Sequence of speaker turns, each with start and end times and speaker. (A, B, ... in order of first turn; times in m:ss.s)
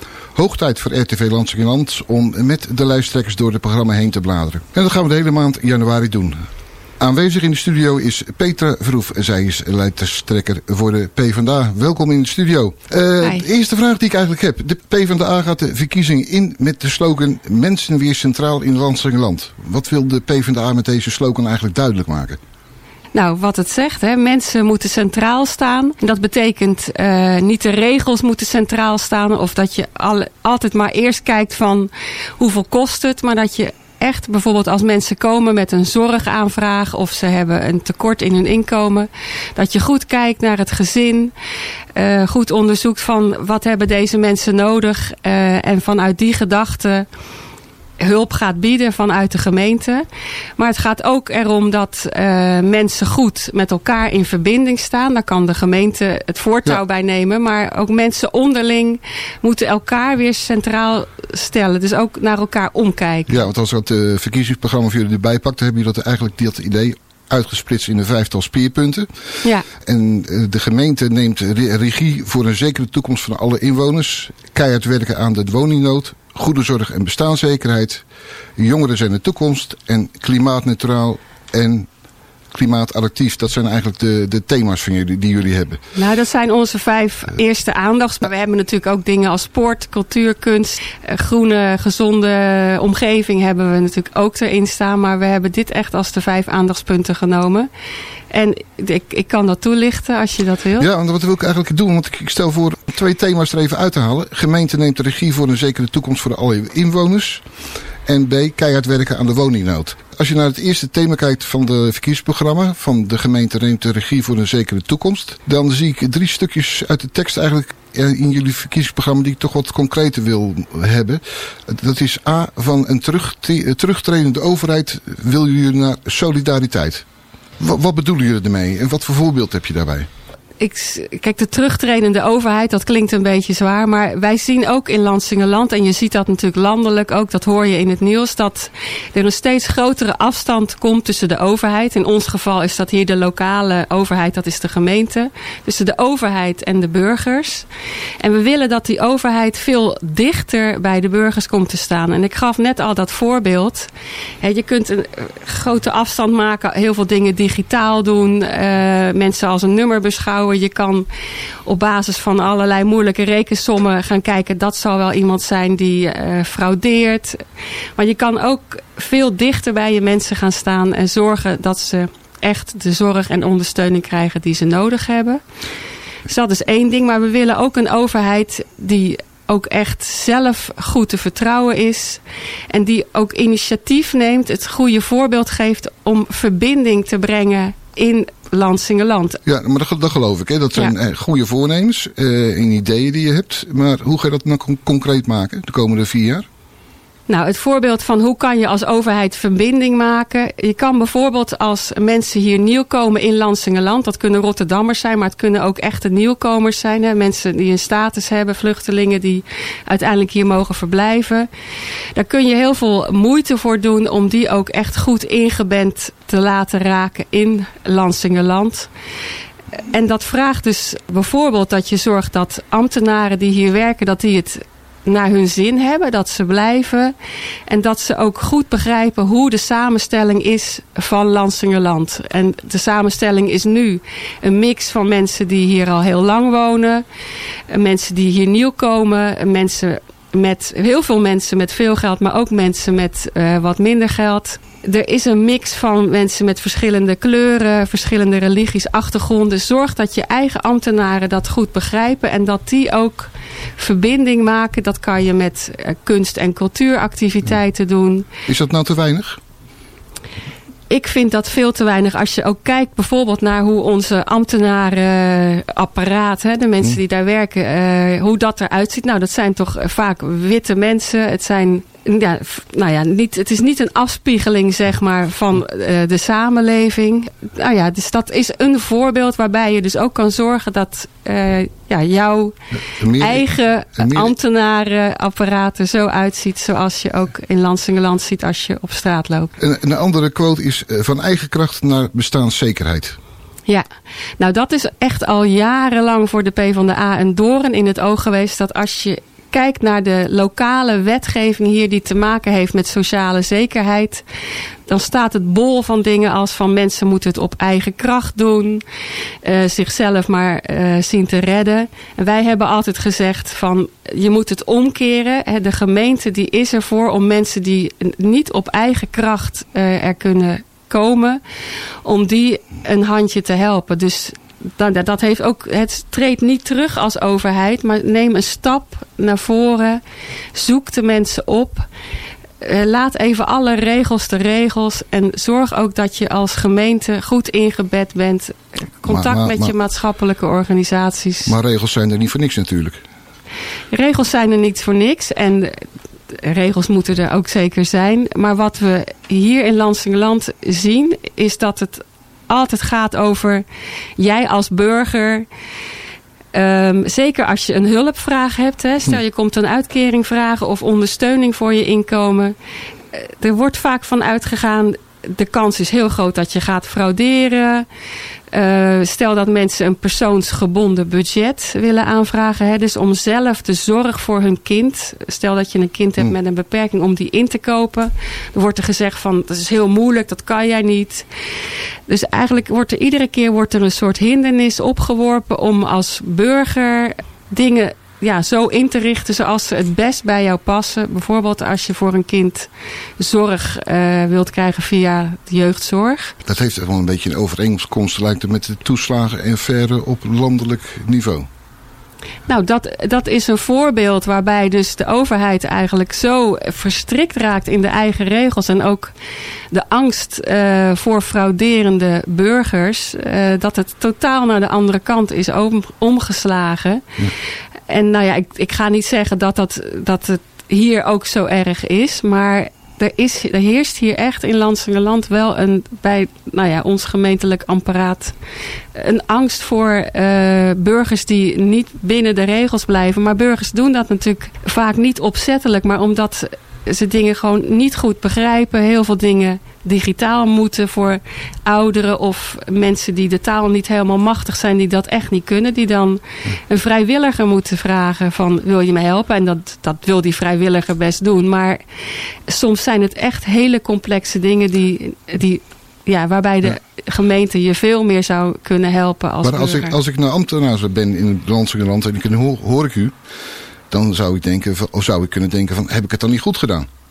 0:00.3-0:06.4 A
0:07.0-0:22.4 A
0:23.1-0:41.3 B
0:41.9-0:47.1 B
0:48.0-0:50.0 B
0:50.6-1:03.4 B
1:03.3-1:09.1 A
1:09.8-1:18.0 A
1:18.6-1:21.9 A
1:22.5-1:25.8 A
1:26.0-1:37.7 B
1:38.3-1:40.9 B
1:40.8-1:47.4 A
1:48.0-2:07.0 A
2:07.6-2:10.1 A
2:10.6-2:27.7 B
2:28.2-2:33.9 B
2:34.4-2:41.1 B
2:41.6-2:47.4 B
2:48.0-2:55.4 B
2:56.2-3:09.4 B
3:09.4-3:16.4 A
3:17.3-3:31.5 B
3:32.1-3:38.9 B
3:39.8-3:47.1 B
3:47.7-3:57.0 B
3:57.7-4:18.3 B
4:18.5-4:19.4 A
4:20.9-4:42.6 B
4:42.7-4:44.3 A
4:43.2-4:49.5 B
4:49.6-4:53.2 A
4:54.4-5:04.2 B
5:04.9-5:08.8 B
5:09.4-5:21.4 B
5:22.0-5:30.0 B
5:30.5-5:31.9 B
5:32.6-5:41.5 B
5:39.1-5:39.7 A
5:41.4-5:43.0 A
5:43.9-5:53.6 B
5:54.2-5:55.5 B
5:56.5-6:02.6 B
6:03.1-6:07.9 B
6:08.5-6:21.3 B
6:22.1-6:36.4 B
6:36.4-6:41.5 A
6:42.5-6:49.1 B
6:49.7-6:57.1 B
6:57.9-7:08.4 B
7:08.9-7:31.8 B
7:32.5-7:40.0 B
7:39.4-7:43.1 A
7:43.9-7:46.9 A